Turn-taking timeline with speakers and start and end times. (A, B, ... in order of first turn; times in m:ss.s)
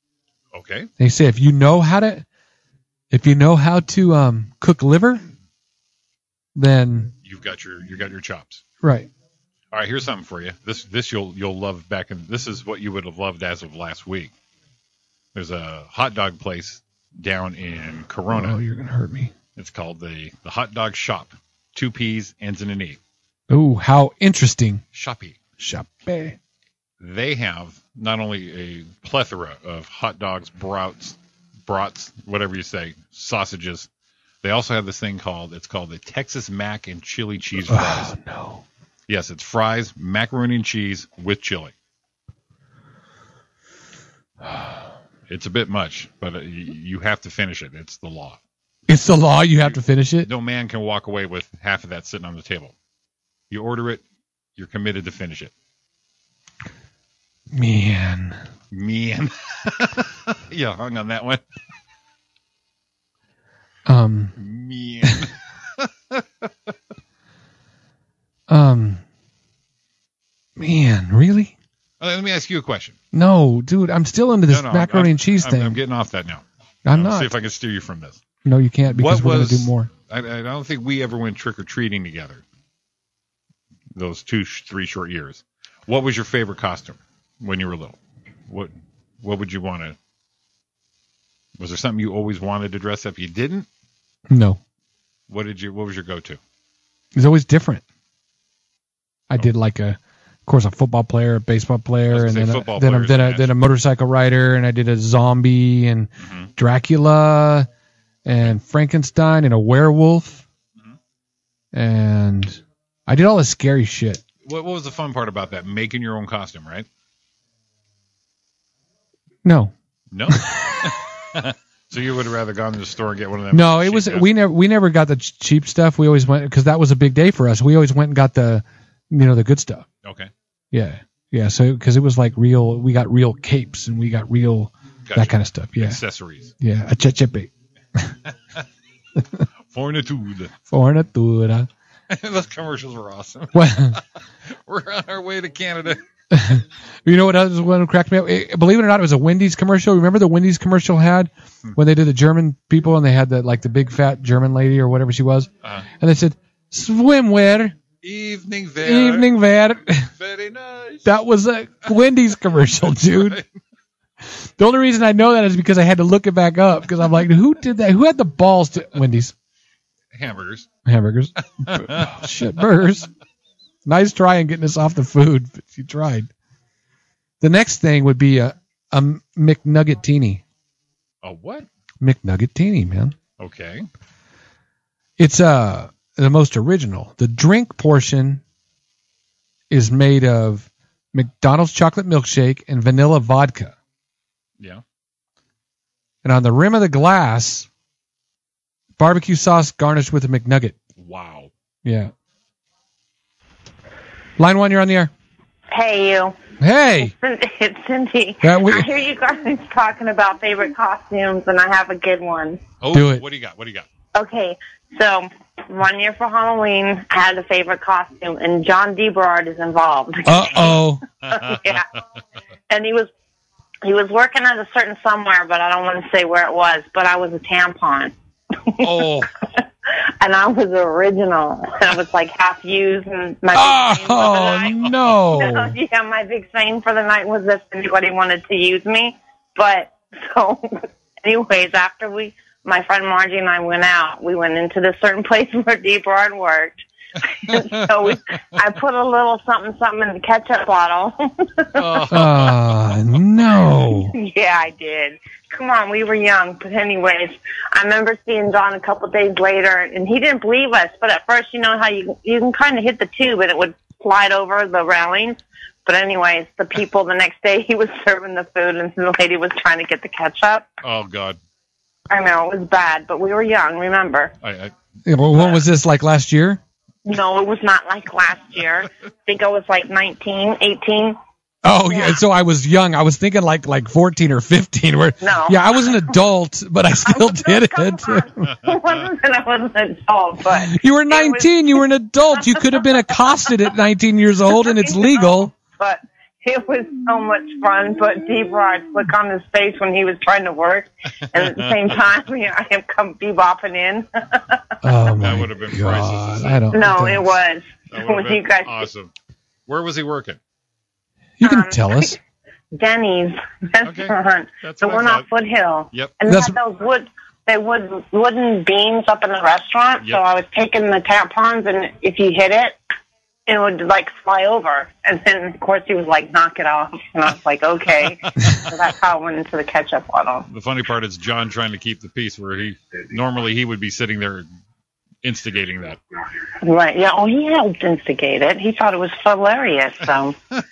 0:00.5-0:00.9 A
0:01.0-0:02.2 B
0:03.1-0:05.2 B
0:06.5-0:07.1 B
0:07.2-0:08.6 A
0:08.8-0:09.1 B
0:09.7-0:14.3 A
0:15.3-0:18.6 A
0:18.3-0:19.3 B
0:19.6-0:23.0 A
0:23.5-0:24.8 B
0:24.9-0:25.4 A
0:25.6-0:26.4 B
0:27.0-0:31.2 A
0:31.7-0:33.9 A
0:34.4-0:38.1 A
0:37.6-0:38.6 B
0:39.1-0:41.7 A
0:45.3-0:48.4 A
0:48.9-0:50.3 B
0:49.6-0:52.7 A
0:53.5-0:54.0 A
0:54.6-0:55.5 A
0:57.5-0:58.4 B
0:58.7-1:01.4 A
1:03.8-1:04.3 B
1:04.4-1:06.5 A
1:08.5-1:09.0 B
1:10.6-1:11.5 B
1:12.0-1:13.0 A
1:13.1-1:15.8 B
1:14.5-1:18.2 A
1:16.8-1:17.3 B
1:18.4-1:19.9 B
1:18.9-1:22.4 A
1:23.9-1:30.0 A
1:31.6-1:33.7 A
1:34.3-1:34.6 B
1:35.3-1:36.4 A
1:37.1-1:37.8 B
1:39.3-1:47.7 B
1:42.1-1:43.5 A
1:46.2-1:46.5 A
1:48.2-1:50.4 B
1:51.7-1:54.2 B
1:54.4-1:56.9 A
1:59.4-1:59.7 B
2:00.1-2:04.3 A
2:00.3-2:01.0 B
2:03.5-2:09.8 B
2:10.0-2:10.3 A
2:10.7-2:16.0 B
2:15.0-2:16.5 A
2:16.6-2:18.2 B
2:19.2-2:19.4 B
2:19.7-2:20.5 A
2:20.7-2:21.7 B
2:22.1-2:26.0 A
2:23.5-2:24.0 B
2:26.3-2:37.7 B
2:38.0-2:39.3 A
2:38.8-2:40.1 B
2:40.1-2:41.1 A
2:41.0-2:43.4 B
2:42.8-2:43.4 A
2:44.3-2:49.3 B
2:50.1-2:50.7 A
2:50.8-2:53.1 B
2:51.6-2:52.3 A
2:53.8-2:56.3 B
2:57.4-3:00.4 B
3:01.2-3:01.7 A
3:02.0-3:03.1 B
3:03.4-3:03.9 A
3:05.2-3:08.4 B
3:09.7-3:13.7 B
3:16.2-3:17.7 B
3:19.0-3:20.7 B
3:21.0-3:21.5 A
3:21.8-3:22.1 B
3:24.4-3:25.1 B
3:25.7-3:32.6 C
3:26.6-3:27.1 B
3:28.4-3:28.9 B
3:32.8-3:33.9 A
3:32.9-3:33.2 B
3:34.1-3:41.8 C
3:40.2-3:41.0 B
3:40.5-3:42.0 A
3:42.7-3:43.1 C
3:43.8-4:12.1 C
3:48.8-3:49.3 A
3:53.5-3:55.8 B
4:07.5-4:08.4 A
4:11.7-4:13.0 A
4:12.1-4:14.1 B
4:14.1-4:30.7 C
4:30.8-4:31.4 A
4:32.1-4:34.3 C
4:34.4-4:34.7 A
4:35.0-4:36.6 B
4:35.3-4:35.6 A
4:37.0-4:41.2 C
4:41.6-4:48.5 B
4:41.9-4:42.2 C
4:45.2-4:46.2 C
4:47.1-4:51.8 C
4:50.5-4:55.5 B
4:52.3-4:53.6 C
4:54.5-5:04.7 C
5:01.2-5:01.9 A
5:04.8-5:07.4 B
5:05.1-5:06.7 A
5:06.7-5:08.8 C
5:07.9-5:09.1 A
5:09.7-5:10.4 A
5:11.4-5:12.2 B
5:11.4-5:12.2 C
5:12.7-5:22.8 C
5:13.8-5:15.3 A
5:16.3-5:16.6 B
5:23.4-5:30.4 C
5:30.5-5:34.5 A
5:35.2-5:36.0 A
5:36.6-5:40.4 C